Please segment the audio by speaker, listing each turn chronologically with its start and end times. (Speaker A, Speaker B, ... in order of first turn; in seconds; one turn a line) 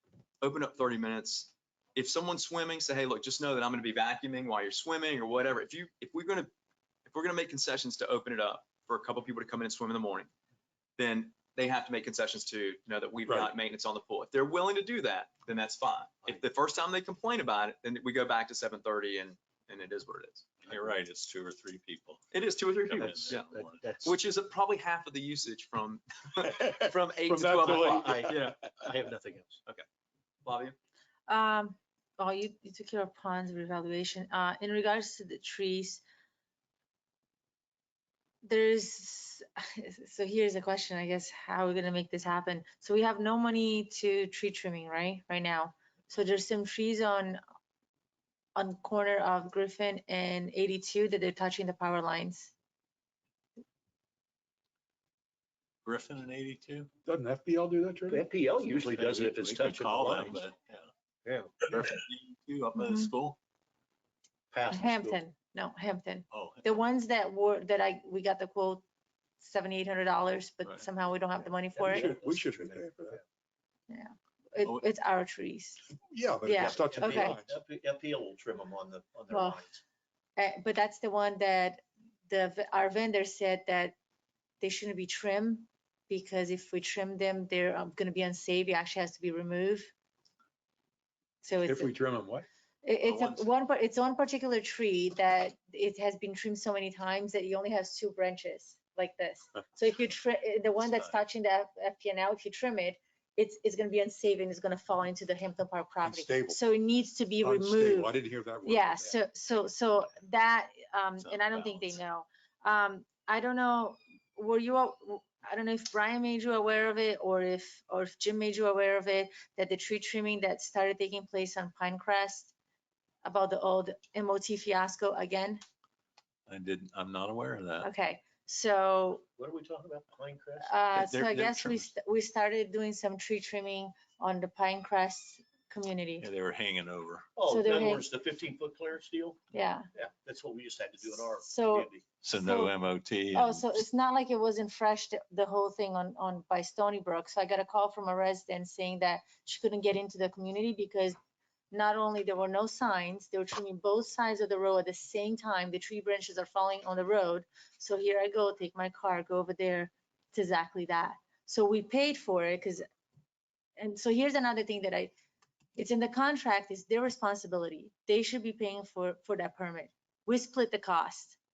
Speaker A: 0.4-6.5
Speaker A: 7.1-10.3
Speaker A: 11.0-20.7
Speaker B: 13.3-13.5
Speaker C: 20.6-23.9
Speaker A: 22.3-28.6
Speaker D: 23.0-24.1
Speaker B: 26.6-28.6
Speaker D: 27.6-29.6
Speaker A: 30.4-30.8
Speaker E: 31.3-36.0
Speaker E: 38.4-47.4
Speaker E: 48.5-52.5
Speaker C: 55.8-56.9
Speaker B: 57.0-58.2
Speaker D: 58.1-60.4
Speaker C: 58.6-60.9
Speaker D: 61.2-61.9
Speaker C: 61.6-63.4
Speaker E: 62.8-63.1
Speaker D: 64.5-65.2
Speaker E: 64.7-68.8
Speaker C: 66.3-66.8
Speaker E: 69.4-72.2
Speaker D: 71.7-73.2
Speaker B: 71.8-73.2
Speaker E: 73.9-75.8
Speaker B: 76.1-77.5
Speaker E: 76.4-77.3
Speaker D: 76.5-79.8
Speaker E: 79.3-79.6
Speaker E: 80.4-84.0
Speaker E: 84.6-89.9
Speaker E: 91.4-91.9
Speaker B: 91.6-92.5
Speaker E: 92.8-122.5
Speaker A: 93.0-93.5
Speaker C: 100.8-101.2
Speaker B: 106.0-106.6
Speaker B: 107.4-109.2
Speaker C: 111.2-112.0
Speaker E: 123.2-125.6
Speaker C: 126.5-127.9
Speaker E: 127.8-129.2
Speaker D: 129.4-130.7
Speaker E: 130.6-136.2
Speaker C: 130.9-131.9
Speaker C: 136.2-137.3
Speaker D: 137.3-142.0
Speaker E: 137.4-138.1
Speaker E: 139.5-139.9
Speaker E: 141.4-142.7
Speaker C: 142.2-143.8
Speaker E: 143.3-151.2
Speaker E: 151.7-162.9
Speaker E: 163.8-165.1
Speaker E: 165.8-171.4